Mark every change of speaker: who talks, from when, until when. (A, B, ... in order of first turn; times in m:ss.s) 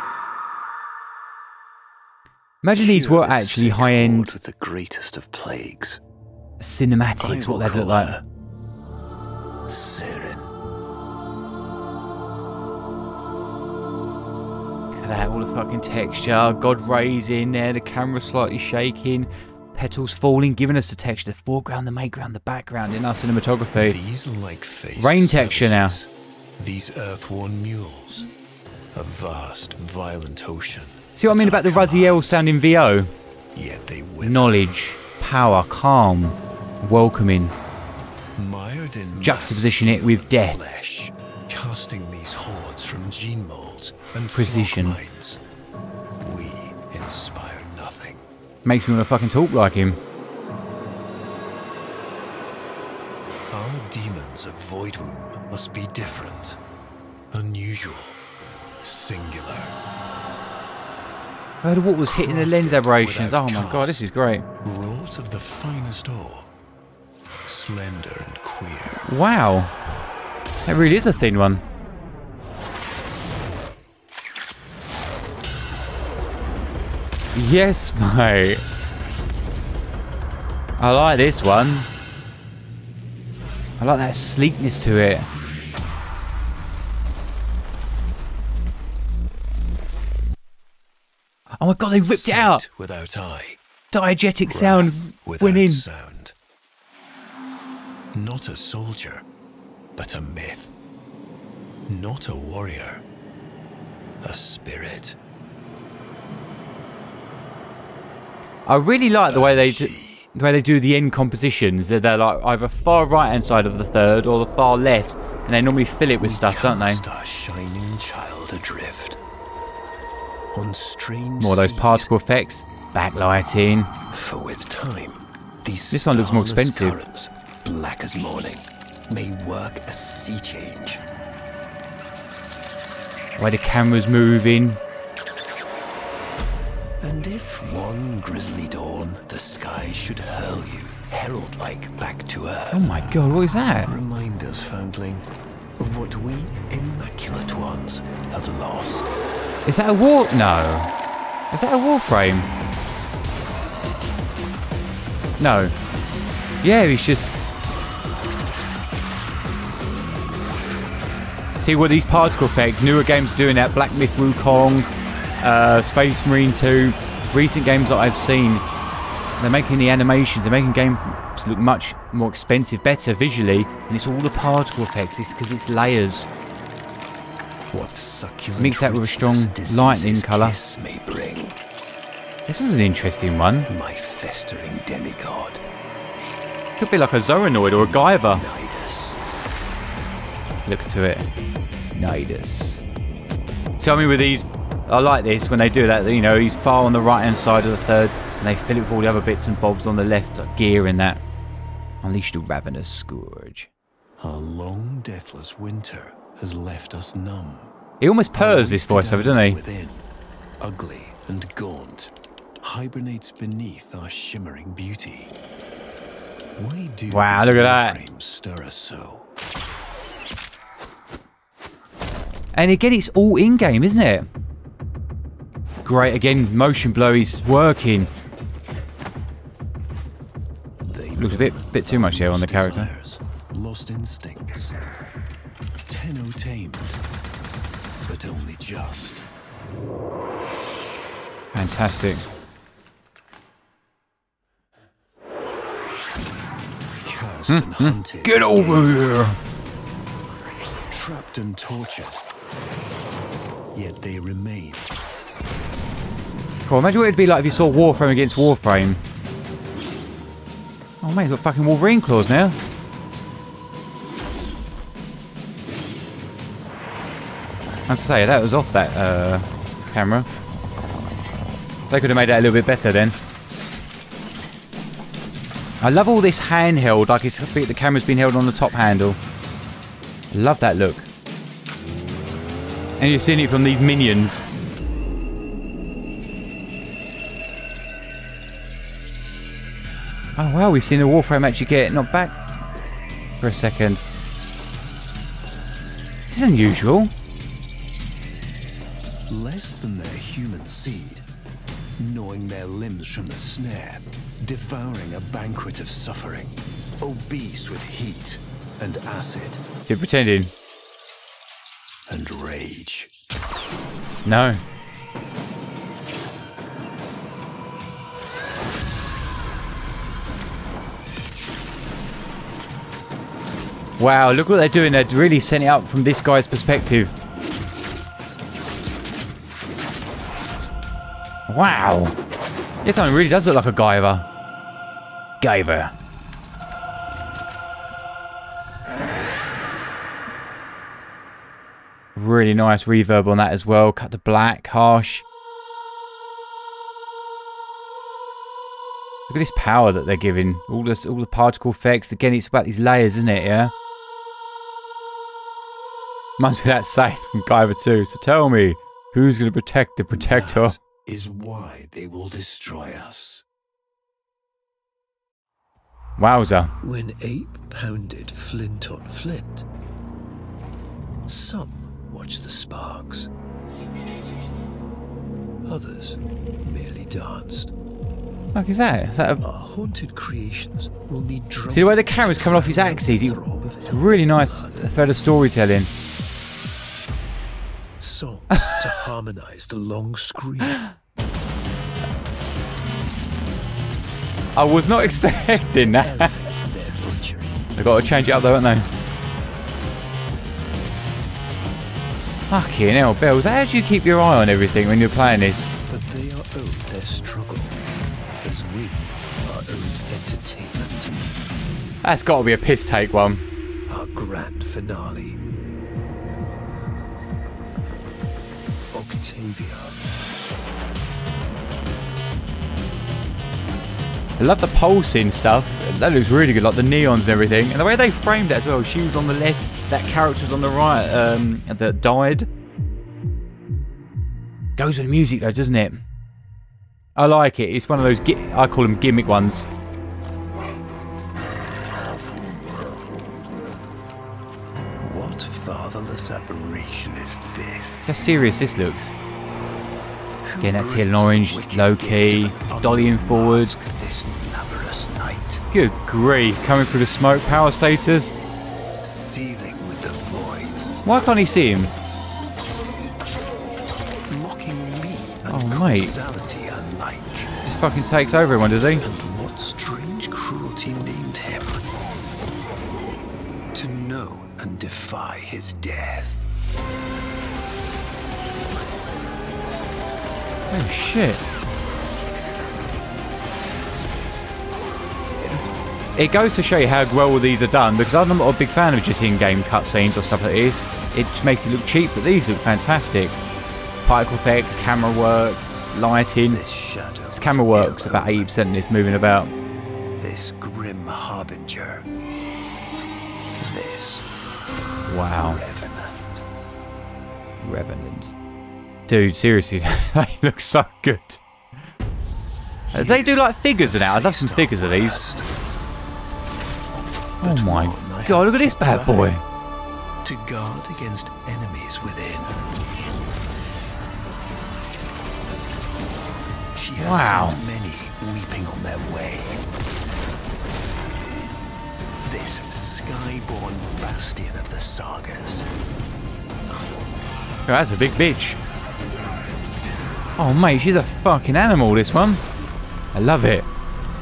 0:02.6-0:04.3 A
0:02.7-0:06.0 B
0:06.6-0:08.2 A
0:07.2-0:08.2 B
0:09.7-0:10.5 B
0:14.9-0:24.0 A
0:23.8-0:28.3 B
0:25.0-0:26.0 A
0:28.9-0:32.3 B
0:31.1-0:33.1 A
0:33.5-0:34.6 B
0:34.2-0:37.5 A
0:38.4-0:45.4 B
0:39.2-0:40.6 A
0:44.3-0:45.0 A
0:46.2-0:48.3 B
0:48.6-0:50.0 A
0:53.5-0:56.6 B
0:57.3-0:58.2 B
0:58.8-0:59.7 B
1:01.6-1:04.4 A
1:02.0-1:04.0 B
1:04.6-1:06.5 B
1:07.4-1:09.1 B
1:09.1-1:09.7 A
1:10.6-1:11.6 A
1:17.3-1:18.6 A
1:20.8-1:21.9 A
1:23.8-1:25.3 A
1:31.6-1:32.6 A
1:32.1-1:33.6 B
1:33.9-1:35.8 A
1:34.4-1:36.3 B
1:38.1-1:39.2 B
1:40.0-1:40.7 B
1:41.9-1:43.0 B
1:44.2-1:45.2 B
1:48.7-1:57.0 A
1:49.3-1:50.3 B
1:56.2-1:59.2 B
2:00.5-2:02.1 B
2:01.4-2:03.9 A
2:04.1-2:11.0 B
2:05.9-2:07.0 A
2:13.4-2:14.8 A
2:17.0-2:23.1 B
2:22.7-2:23.9 A
2:23.7-2:25.2 B
2:25.8-2:29.2 B
2:29.6-2:30.9 A
2:31.5-2:32.5 A
2:35.4-2:35.7 A
2:36.6-2:37.4 A
2:41.6-2:44.9 A
2:45.4-2:48.6 A
2:49.4-2:56.3 A
2:57.7-3:01.6 B
2:58.6-3:00.6 A
3:02.5-3:03.7 A
3:03.7-3:05.6 B
3:06.8-3:08.4 A
3:07.8-3:09.2 B
3:10.6-3:11.3 A
3:12.0-3:12.8 A
3:13.8-3:21.2 A
3:22.0-3:23.7 A
3:24.2-3:27.7 B
3:28.0-3:29.6 A
3:28.3-3:30.0 B
3:30.6-3:35.3 B
3:36.6-3:39.3 B
3:37.1-3:38.0 A
3:42.5-3:44.3 A
3:45.8-3:48.1 A
3:50.9-3:54.7 B
3:51.2-3:52.9 A
3:55.8-3:57.0 B
3:58.0-3:59.2 B
4:01.5-4:02.2 A
4:07.0-4:09.0 B
4:07.5-4:09.4 A
4:10.9-4:12.2 B
4:13.7-4:14.9 B
4:16.6-4:19.0 A
4:17.4-4:18.5 B
4:21.0-4:22.6 A
4:27.9-4:30.3 A
4:31.9-4:33.2 A
4:35.8-4:39.2 A
4:40.3-4:41.1 A
4:43.0-4:44.5 A
4:50.4-4:52.4 A
4:53.4-4:54.0 A
4:56.3-4:57.1 A
4:59.3-5:01.2 B
5:02.0-5:09.6 B
5:09.9-5:10.5 A
5:12.1-5:13.1 B
5:14.2-5:14.6 A
5:24.0-5:27.1 A
5:31.5-5:32.1 A
5:32.8-5:34.2 A
5:35.4-5:35.9 A
5:42.2-5:45.2 A
5:49.3-5:53.7 A
5:56.4-6:00.7 A
6:00.1-6:03.4 B
6:06.2-6:06.7 A
6:06.8-6:09.6 B
6:11.3-6:13.3 B
6:15.6-6:17.7 B
6:18.5-6:19.4 A
6:19.4-6:24.8 B
6:21.7-6:25.9 A
6:28.0-6:30.8 B
6:34.6-6:36.3 A
6:35.0-6:37.8 B
6:37.8-6:38.9 A
6:42.5-6:45.7 A
6:45.9-6:47.8 B
6:48.4-6:51.2 B
6:52.0-6:53.4 A
6:53.9-6:55.4 B
6:58.9-7:00.0 B
7:04.4-7:12.5 A
7:14.8-7:16.0 A
7:17.1-7:19.6 A
7:25.0-7:28.2 B
7:28.1-7:29.1 A
7:30.4-7:35.7 B
7:30.6-7:33.8 A
7:35.7-7:38.3 A
7:39.0-7:40.9 B
7:41.0-7:41.9 A
7:44.3-7:47.7 B
7:45.5-7:46.1 A
7:47.6-7:49.0 A
7:49.0-7:51.8 B
7:53.7-7:56.4 B
8:00.7-8:01.4 A
8:06.2-8:13.3 A
8:14.0-8:16.6 A
8:16.5-8:18.5 B
8:17.3-8:19.5 A
8:20.2-8:22.0 B
8:23.6-8:24.2 B
8:25.0-8:25.6 A
8:25.4-8:26.4 B
8:27.6-8:28.3 A
8:29.1-8:31.4 A
8:32.9-8:35.6 B
8:32.9-8:35.2 A
8:37.4-8:39.4 B
8:37.4-8:39.4 A
8:40.2-8:42.6 B
8:46.7-8:49.6 B
8:47.0-8:47.6 A
8:52.2-8:55.7 B
8:57.6-8:58.6 A
9:00.4-9:02.4 A
9:03.1-9:03.7 A